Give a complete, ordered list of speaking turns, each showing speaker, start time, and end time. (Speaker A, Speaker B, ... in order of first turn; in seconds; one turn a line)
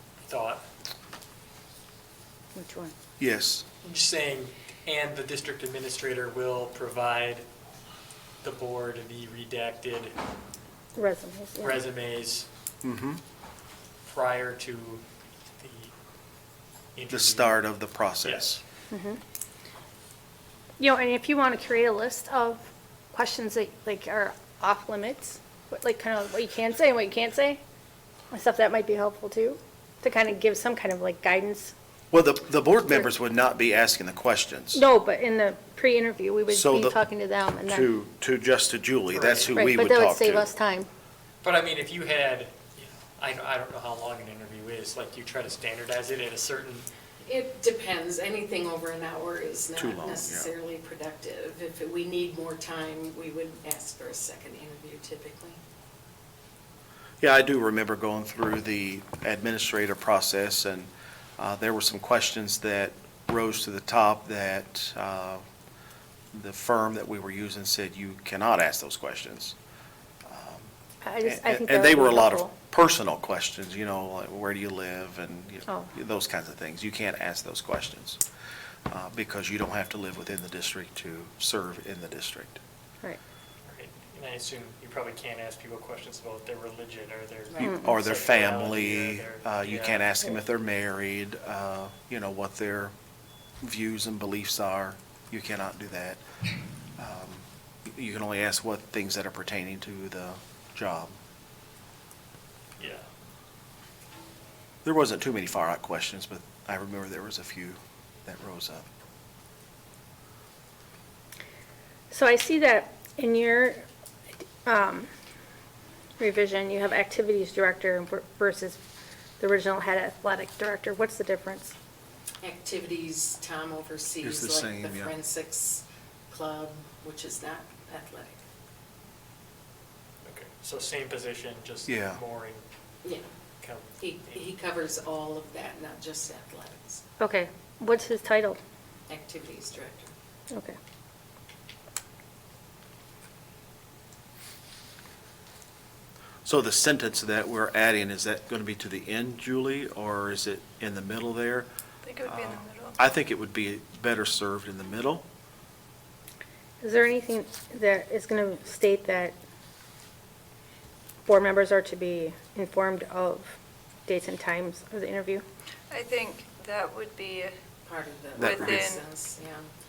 Speaker A: 0.2-0.7
Speaker B: 2.5-2.9
Speaker C: 3.2-3.6
Speaker A: 3.8-7.5
Speaker A: 8.4-10.2
Speaker B: 11.0-11.8
Speaker A: 11.6-12.5
Speaker C: 12.8-13.2
Speaker A: 14.1-15.0
Speaker A: 15.6-15.9
Speaker A: 16.9-17.6
Speaker C: 17.1-18.6
Speaker A: 18.2-18.6
Speaker B: 18.9-19.2
Speaker B: 20.8-27.6
Speaker B: 28.3-31.7
Speaker C: 32.1-34.8
Speaker B: 34.7-37.9
Speaker C: 36.5-37.0
Speaker C: 37.6-40.5
Speaker B: 39.1-40.9
Speaker A: 41.4-46.9
Speaker D: 47.2-55.6
Speaker C: 49.8-50.5
Speaker C: 57.2-65.4
Speaker C: 66.3-69.5
Speaker C: 70.2-70.7
Speaker B: 71.0-72.5
Speaker C: 71.2-78.2
Speaker C: 78.9-82.6
Speaker A: 83.7-90.1
Speaker C: 87.6-92.9
Speaker B: 87.6-87.9
Speaker C: 93.6-96.2
Speaker C: 97.0-101.2
Speaker A: 102.8-103.1
Speaker C: 104.8-108.9
Speaker B: 112.1-113.9
Speaker B: 114.7-115.1
Speaker B: 116.2-118.8
Speaker B: 119.4-121.7
Speaker D: 122.4-128.4
Speaker C: 124.2-125.1
Speaker A: 130.2-132.6
Speaker C: 131.9-132.2
Speaker A: 133.6-134.4
Speaker D: 134.0-137.0
Speaker B: 137.2-138.6
Speaker D: 139.1-140.1
Speaker B: 140.5-140.8
Speaker C: 146.4-151.7
Speaker E: 152.1-153.0
Speaker C: 152.2-155.2
Speaker B: 156.8-159.4
Speaker B: 161.3-163.6
Speaker B: 164.1-165.4
Speaker E: 165.9-167.5
Speaker D: 167.8-169.7
Speaker C: 168.4-168.9
Speaker E: 168.4-169.0